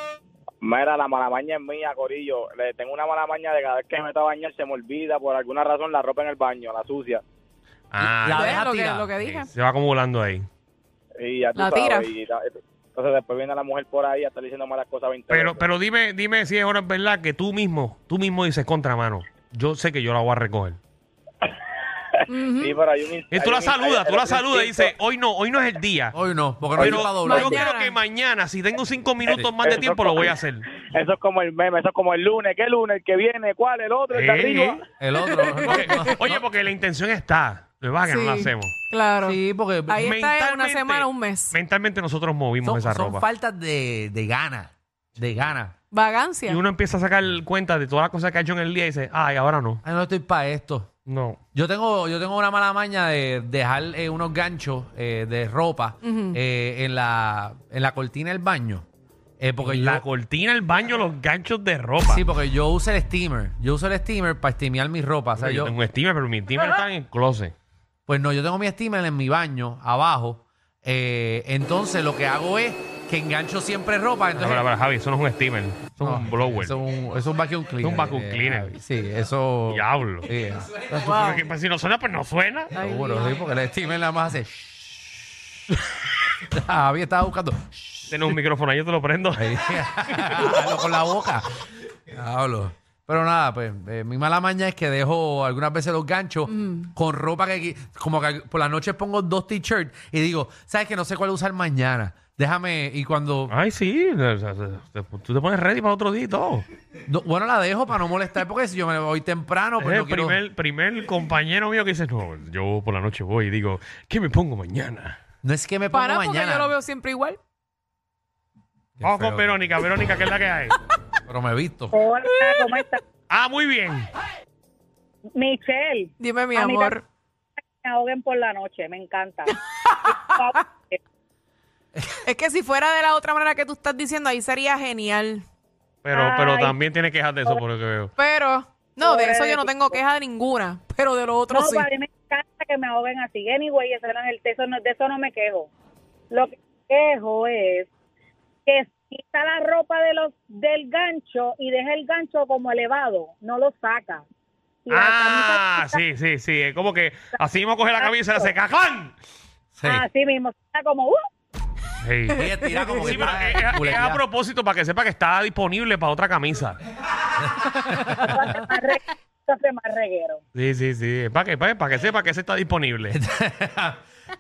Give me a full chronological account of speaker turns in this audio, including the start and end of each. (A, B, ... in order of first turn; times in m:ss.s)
0:00.6-0:07.2 A
0:07.9-0:10.5 B
0:08.0-0:09.1 C
0:08.3-0:09.5 D
0:11.2-0:15.7 A
0:11.6-0:12.1 D
0:15.3-0:20.8 B
0:22.3-0:22.8 D
0:22.5-0:24.9 A
0:23.3-0:26.2 B
0:26.1-0:27.7 C
0:26.8-0:30.7 B
0:26.8-0:27.1 A
0:27.2-0:28.0 D
0:29.3-0:30.3 A
0:30.9-0:34.8 A
0:34.1-0:34.8 B
0:35.0-0:36.4 C
0:35.3-0:36.2 D
0:35.6-0:38.7 B
0:38.0-0:41.6 D
0:39.2-0:40.1 C
0:40.0-0:43.2 B
0:42.6-0:45.7 C
0:45.9-0:46.6 D
0:46.5-0:49.8 B
0:49.8-0:50.9 C
0:51.1-0:51.4 B
0:51.5-0:58.8 C
0:56.0-0:56.4 D
0:59.4-1:00.0 C
0:59.6-1:02.2 B
1:02.1-1:05.7 C
1:05.4-1:07.5 B
1:08.1-1:14.7 C
1:14.3-1:16.8 B
1:16.0-1:21.0 C
1:17.8-1:18.8 B
1:19.7-1:20.3 B
1:20.9-1:22.7 B
1:21.0-1:21.4 D
1:22.8-1:23.4 D
1:22.8-1:25.3 C
1:26.5-1:28.2 C
1:28.1-1:30.4 B
1:29.4-1:31.4 C
1:32.1-1:43.5 C
1:36.5-1:36.9 D
1:43.5-1:46.7 B
1:47.1-1:50.4 C
1:49.8-1:55.2 B
1:55.4-1:56.7 C
1:55.9-1:57.4 D
1:59.0-1:59.5 C
1:59.0-2:00.8 B
2:01.3-2:01.9 C
2:01.9-2:03.0 E
2:02.2-2:02.9 D
2:03.3-2:04.1 B
2:05.4-2:07.0 E
2:06.2-2:07.0 D
2:07.8-2:09.5 E
2:09.5-2:10.6 D
2:10.0-2:11.0 E
2:12.2-2:15.4 D
2:16.0-2:18.1 B
2:16.1-2:16.8 E
2:18.2-2:21.9 D
2:19.0-2:20.0 E
2:21.5-2:25.7 E
2:26.3-2:27.9 E
2:28.7-2:34.2 E
2:34.9-2:36.0 E
2:34.9-2:39.1 B
2:38.0-2:38.6 E
2:39.8-2:40.0 C
2:39.8-2:41.2 E
2:42.0-2:46.8 B
2:42.3-2:44.2 C
2:47.5-2:48.2 C
2:48.3-2:50.4 E
2:50.6-2:53.2 B
2:53.1-2:54.0 C